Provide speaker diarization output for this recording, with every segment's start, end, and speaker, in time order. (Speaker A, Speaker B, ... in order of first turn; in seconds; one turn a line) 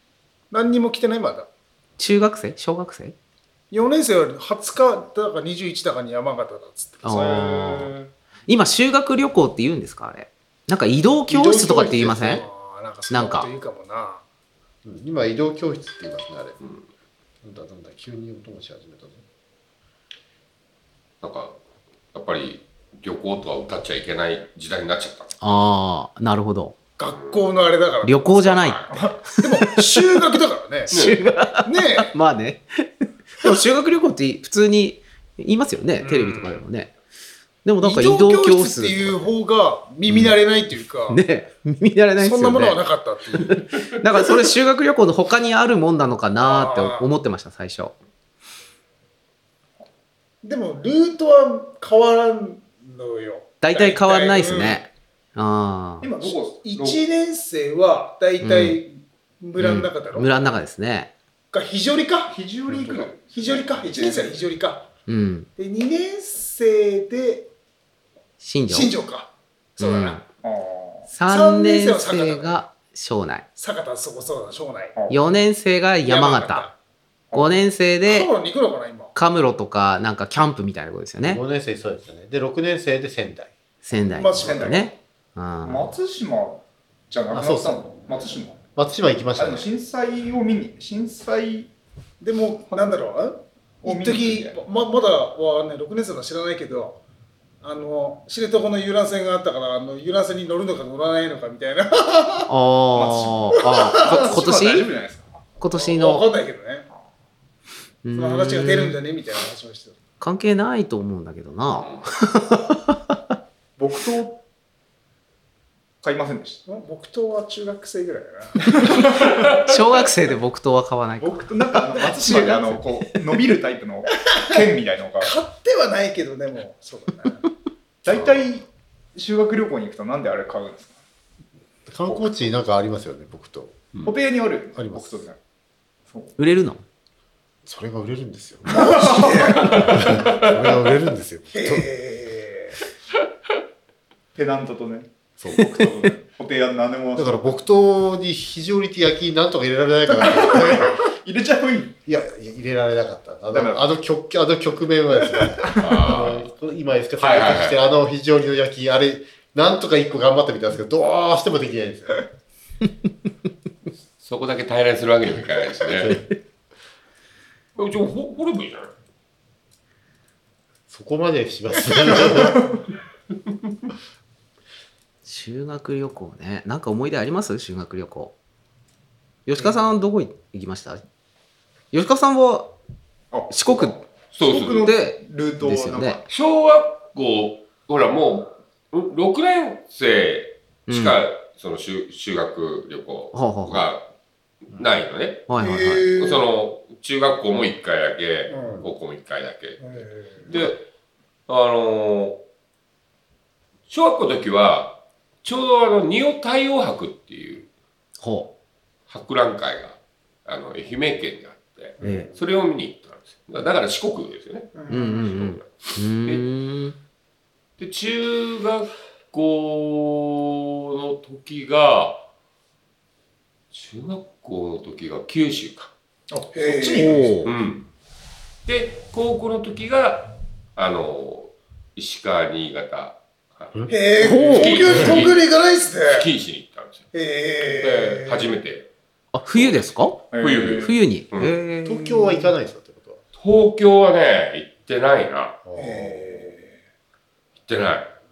Speaker A: 0.5-1.5
Speaker B: 2.0-3.1
Speaker A: 3.7-7.2
Speaker B: 7.0-7.9
Speaker C: 7.1-8.1
Speaker B: 8.5-12.4
Speaker A: 11.3-14.2
Speaker D: 11.3-12.4
Speaker B: 13.1-13.5
Speaker D: 14.8-16.6
Speaker E: 16.6-16.9
Speaker D: 17.4-19.2
Speaker E: 21.2-21.6
Speaker E: 22.1-25.4
Speaker B: 25.4-26.8
Speaker A: 27.0-28.3
Speaker E: 27.1-27.6
Speaker B: 28.0-29.8
Speaker E: 28.3-29.2
Speaker A: 29.4-30.9
Speaker B: 30.9-36.9
Speaker E: 30.9-31.2
Speaker A: 31.6-32.1
Speaker A: 36.0-36.6
Speaker B: 37.6-39.3
Speaker A: 37.8-41.2
Speaker B: 40.1-40.4
Speaker B: 41.1-42.8
Speaker A: 42.2-43.6
Speaker B: 43.4-47.9
Speaker A: 46.4-47.1
Speaker A: 50.4-54.8
Speaker B: 53.6-56.1
Speaker C: 56.0-57.0
Speaker A: 56.2-60.3
Speaker B: 58.4-58.8
Speaker B: 59.6-61.1
Speaker A: 61.5-64.9
Speaker C: 62.3-64.4
Speaker B: 65.1-65.5
Speaker A: 65.6-67.5
Speaker B: 68.4-68.9
Speaker A: 68.7-70.2
Speaker B: 69.8-70.2
Speaker C: 70.4-71.1
Speaker B: 71.1-73.5
Speaker A: 71.2-72.6
Speaker A: 73.5-75.0
Speaker B: 75.1-76.7
Speaker A: 76.0-76.7
Speaker C: 77.3-77.5
Speaker B: 77.3-78.3
Speaker A: 78.0-79.1
Speaker B: 79.1-81.4
Speaker D: 81.2-83.5
Speaker B: 83.8-85.9
Speaker A: 84.1-84.8
Speaker C: 84.3-85.0
Speaker C: 85.6-88.6
Speaker D: 87.3-87.8
Speaker D: 88.8-89.7
Speaker C: 89.3-91.7
Speaker A: 92.2-97.0
Speaker C: 92.7-93.0
Speaker C: 93.8-94.6
Speaker A: 97.6-102.5
Speaker B: 102.5-104.9
Speaker C: 102.9-105.5
Speaker A: 103.7-104.2
Speaker B: 105.6-106.3
Speaker A: 105.7-106.9
Speaker B: 108.0-109.0
Speaker A: 108.1-109.9
Speaker B: 110.2-113.1
Speaker C: 113.8-114.4
Speaker C: 116.0-116.6
Speaker A: 116.7-118.6
Speaker C: 118.6-119.6
Speaker B: 119.6-122.9
Speaker C: 121.2-125.3
Speaker A: 124.2-124.5
Speaker A: 125.2-127.5
Speaker C: 128.0-131.0
Speaker D: 131.9-133.8
Speaker C: 134.0-135.4
Speaker D: 134.7-135.2
Speaker C: 136.1-136.3
Speaker B: 136.4-136.8
Speaker D: 137.7-139.0
Speaker A: 138.7-140.1
Speaker C: 138.8-139.7
Speaker D: 139.6-141.9
Speaker E: 139.8-140.6
Speaker A: 141.5-142.8
Speaker C: 144.3-147.6
Speaker D: 145.4-145.8
Speaker B: 145.5-145.8
Speaker D: 147.2-151.0
Speaker C: 151.0-152.0
Speaker D: 152.1-162.2
Speaker C: 153.5-153.9
Speaker E: 155.8-156.5
Speaker E: 157.2-157.8
Speaker E: 164.2-166.2
Speaker E: 167.7-168.9
Speaker D: 170.9-172.7
Speaker B: 175.2-178.3
Speaker B: 179.5-181.0
Speaker B: 181.9-182.7
Speaker C: 183.3-186.2
Speaker B: 183.5-183.9
Speaker E: 184.3-184.9
Speaker B: 184.8-186.2
Speaker E: 186.3-194.1
Speaker B: 190.9-191.2
Speaker B: 193.3-193.9
Speaker E: 194.7-195.5
Speaker B: 195.5-196.1
Speaker A: 195.6-196.4
Speaker E: 196.0-199.8
Speaker A: 198.5-198.8
Speaker A: 199.8-200.5
Speaker E: 200.4-200.8
Speaker E: 201.5-202.4
Speaker E: 203.9-207.7
Speaker B: 208.2-208.5
Speaker E: 209.1-216.4
Speaker B: 212.0-212.3
Speaker A: 214.7-215.3
Speaker B: 214.9-217.0
Speaker E: 217.8-222.3
Speaker E: 223.7-225.9
Speaker C: 226.3-227.3
Speaker A: 226.5-227.3
Speaker B: 226.9-227.5
Speaker E: 227.4-227.9
Speaker E: 228.7-235.5
Speaker A: 233.9-236.3
Speaker B: 234.2-235.2
Speaker E: 236.0-237.1
Speaker A: 237.1-238.5
Speaker E: 237.7-238.9
Speaker B: 239.3-240.2
Speaker E: 239.5-241.6
Speaker C: 240.3-240.9
Speaker B: 240.8-242.6
Speaker D: 241.8-243.2
Speaker E: 243.3-245.6
Speaker D: 245.6-246.4
Speaker A: 245.8-246.8
Speaker E: 247.7-248.1